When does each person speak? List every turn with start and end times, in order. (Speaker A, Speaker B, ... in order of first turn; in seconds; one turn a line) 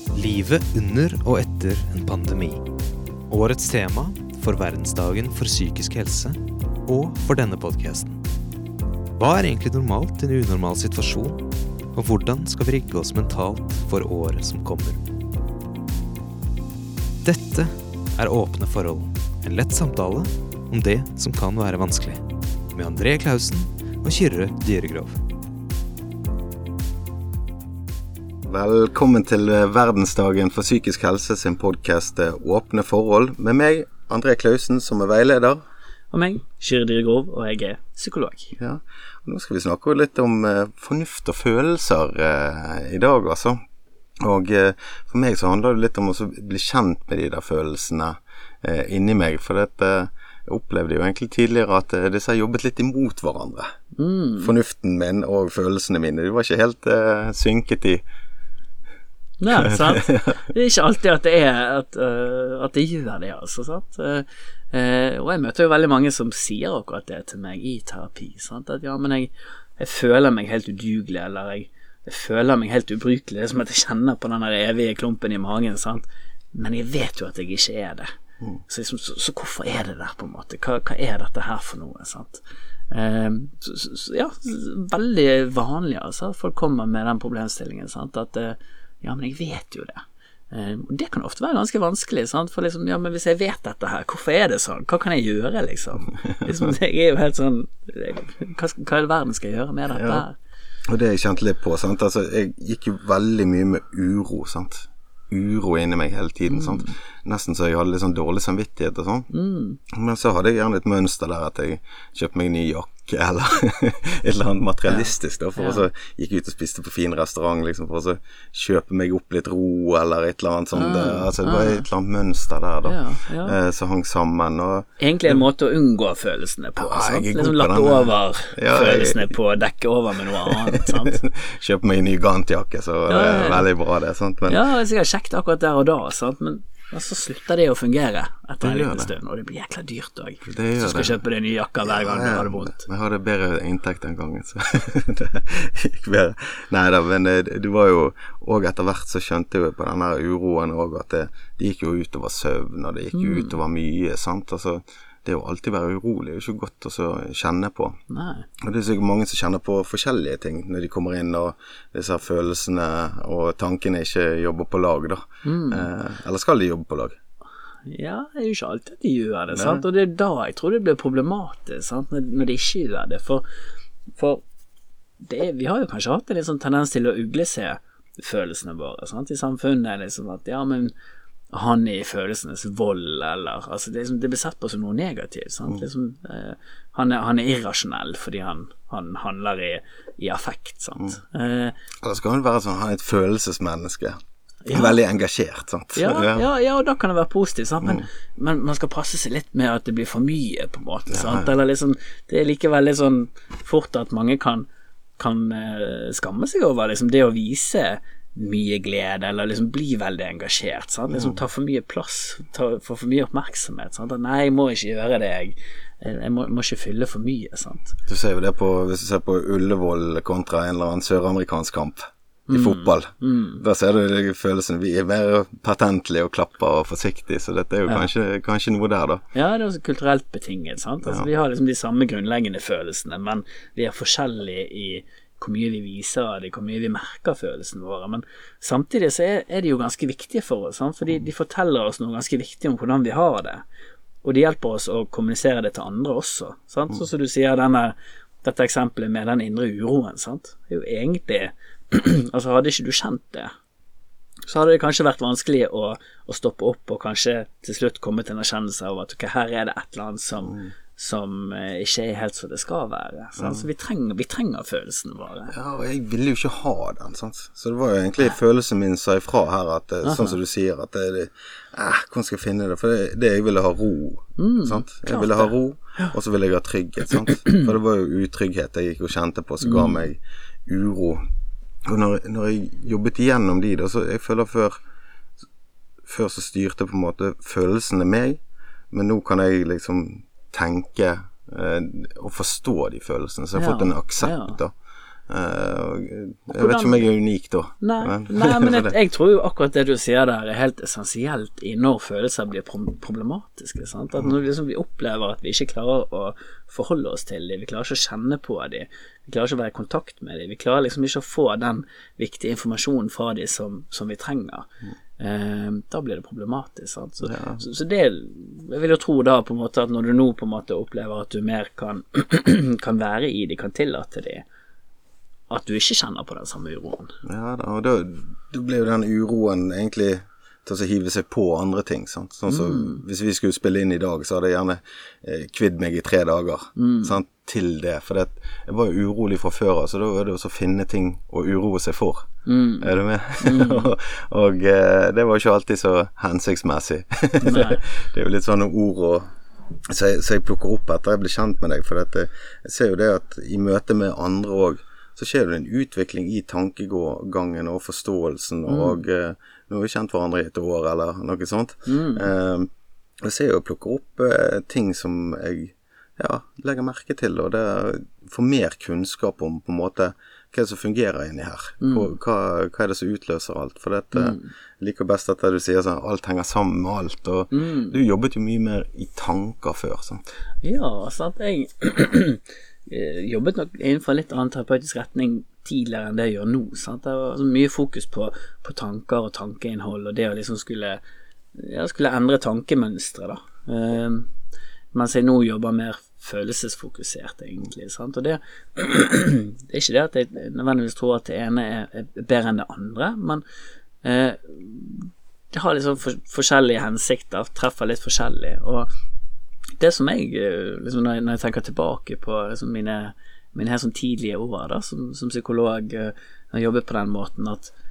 Speaker A: 0.1-2.6
Speaker A: 3.3-8.2
Speaker A: 9.2-11.4
Speaker A: 11.9-15.0
Speaker A: 17.2-22.2
Speaker A: 22.7-25.2
Speaker B: 28.4-35.6
Speaker C: 36.1-38.5
Speaker B: 38.6-43.6
Speaker B: 44.2-53.7
Speaker C: 54.0-54.5
Speaker B: 54.4-58.0
Speaker C: 59.4-78.1
Speaker B: 59.5-60.4
Speaker C: 78.7-100.4
Speaker B: 96.4-96.7
Speaker B: 99.9-100.2
Speaker B: 100.9-109.3
Speaker C: 106.5-106.9
Speaker C: 109.3-109.8
Speaker B: 109.9-125.4
Speaker C: 114.9-115.8
Speaker C: 120.8-121.9
Speaker C: 122.9-123.6
Speaker C: 125.0-131.2
Speaker B: 126.8-129.3
Speaker B: 130.3-134.6
Speaker C: 133.1-133.7
Speaker C: 134.5-142.9
Speaker B: 138.6-139.1
Speaker B: 140.5-141.2
Speaker B: 141.8-158.0
Speaker C: 153.1-153.6
Speaker C: 158.1-158.5
Speaker B: 158.6-167.2
Speaker C: 165.4-165.9
Speaker C: 167.9-173.4
Speaker B: 169.5-169.8
Speaker C: 174.2-174.4
Speaker C: 175.2-180.9
Speaker C: 181.5-191.8
Speaker B: 192.0-194.2
Speaker C: 194.7-195.0
Speaker B: 194.7-196.5
Speaker C: 195.9-218.0
Speaker B: 201.1-201.5
Speaker B: 211.1-211.4
Speaker B: 218.1-229.2
Speaker C: 222.5-223.6
Speaker C: 229.3-243.6
Speaker C: 244.2-253.5
Speaker C: 254.5-265.5
Speaker B: 260.4-260.7
Speaker B: 263.4-263.6
Speaker B: 265.5-281.2
Speaker C: 270.0-270.4
Speaker C: 274.4-276.1
Speaker C: 277.1-277.6
Speaker C: 279.6-280.0
Speaker B: 281.9-284.8
Speaker B: 286.1-294.7
Speaker C: 293.6-294.6
Speaker B: 295.3-298.9
Speaker C: 296.5-297.1
Speaker C: 297.8-314.7
Speaker C: 315.2-324.4
Speaker B: 317.2-317.6
Speaker C: 325.5-327.1
Speaker B: 327.2-342.3
Speaker C: 332.5-333.0
Speaker C: 336.8-337.2
Speaker C: 342.5-343.9
Speaker B: 342.8-349.3
Speaker C: 347.4-347.8
Speaker B: 349.9-362.7
Speaker C: 358.7-359.0
Speaker C: 361.9-362.3
Speaker B: 363.2-380.2
Speaker C: 371.8-372.1
Speaker C: 374.1-374.5
Speaker C: 377.5-377.9
Speaker C: 380.6-391.0
Speaker C: 391.6-394.3
Speaker C: 394.9-403.4
Speaker C: 404.0-408.9
Speaker C: 409.8-417.7